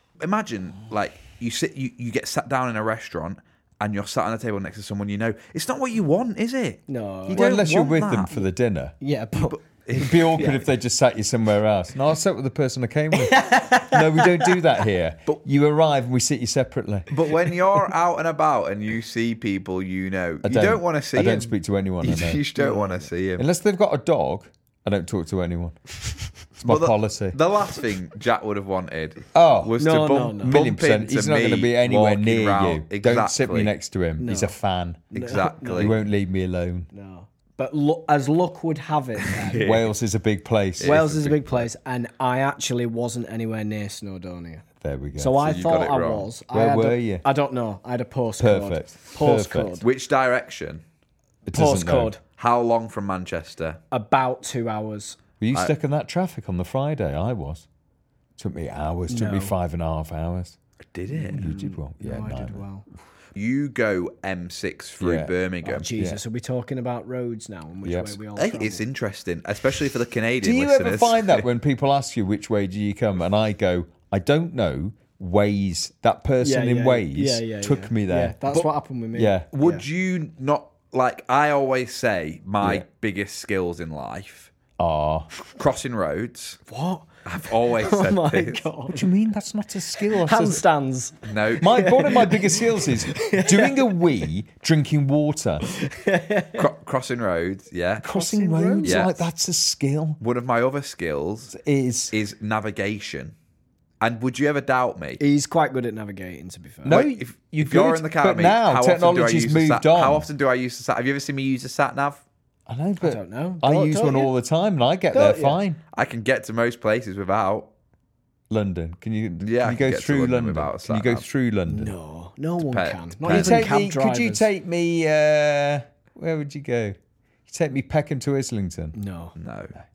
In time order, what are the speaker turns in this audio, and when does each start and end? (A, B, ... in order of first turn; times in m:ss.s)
0:00.2-0:08.3 A
0:06.9-0:08.0 B
0:07.3-0:08.9 C
0:09.0-0:09.6 B
0:09.5-0:10.6 A
0:10.0-0:17.1 C
0:13.1-0:14.5 B
0:17.1-0:23.4 A
0:20.4-0:22.4 C
0:22.6-0:23.0 B
0:23.4-0:25.8 C
0:26.6-0:33.7 A
0:26.6-0:27.4 C
0:29.3-0:29.7 C
0:29.8-0:30.6 B
0:30.4-0:36.9 C
0:34.2-0:34.5 B
0:35.1-0:35.9 A
0:35.1-0:35.9 B
0:36.9-0:39.7 B
0:39.3-0:39.9 A
0:39.6-0:41.0 C
0:40.8-0:41.7 A
0:40.8-0:44.6 B
0:44.8-0:45.5 C
0:45.2-0:49.9 B
0:45.4-0:46.3 A
0:46.5-0:47.2 C
0:48.4-0:49.8 C
0:49.8-0:50.8 A
0:51.5-0:52.1 C
0:51.5-0:52.2 B
0:52.4-0:53.8 A
0:53.9-0:55.2 B
0:55.4-0:57.6 C
0:58.4-1:00.6 C
0:59.1-0:59.6 B
1:00.9-1:01.4 A
1:01.1-1:02.6 C
1:01.2-1:02.9 B
1:03.3-1:05.9 A
1:05.0-1:05.3 C
1:05.6-1:08.8 B
1:06.0-1:06.2 C
1:07.8-1:08.2 C
1:08.4-1:11.4 A
1:10.4-1:19.5 C
1:16.4-1:19.8 B
1:19.5-1:24.5 A
1:22.6-1:22.8 C
1:24.8-1:25.3 C
1:25.5-1:26.6 A
1:26.7-1:27.1 B
1:27.2-1:28.7 A
1:27.6-1:29.1 B
1:28.9-1:30.6 C
1:30.0-1:34.0 B
1:31.2-1:31.7 A
1:31.6-1:35.7 C
1:35.7-1:36.7 B
1:36.5-1:38.1 A
1:38.0-1:40.2 C
1:38.1-1:39.0 B
1:38.8-1:39.1 A
1:40.2-1:41.5 A
1:41.5-1:42.1 C
1:42.1-1:43.3 A
1:44.0-1:45.2 A
1:45.2-1:47.0 B
1:46.8-1:50.3 C
1:46.8-1:52.2 A
1:52.7-1:55.8 C
1:53.0-1:54.3 B
1:55.1-1:55.6 B
1:55.9-1:57.7 A
1:58.5-2:01.9 C
1:59.4-2:01.2 A
2:01.7-2:04.5 B
2:02.6-2:03.8 A
2:03.3-2:07.0 C
2:07.5-2:08.9 C
2:08.9-2:09.3 B
2:09.4-2:09.7 A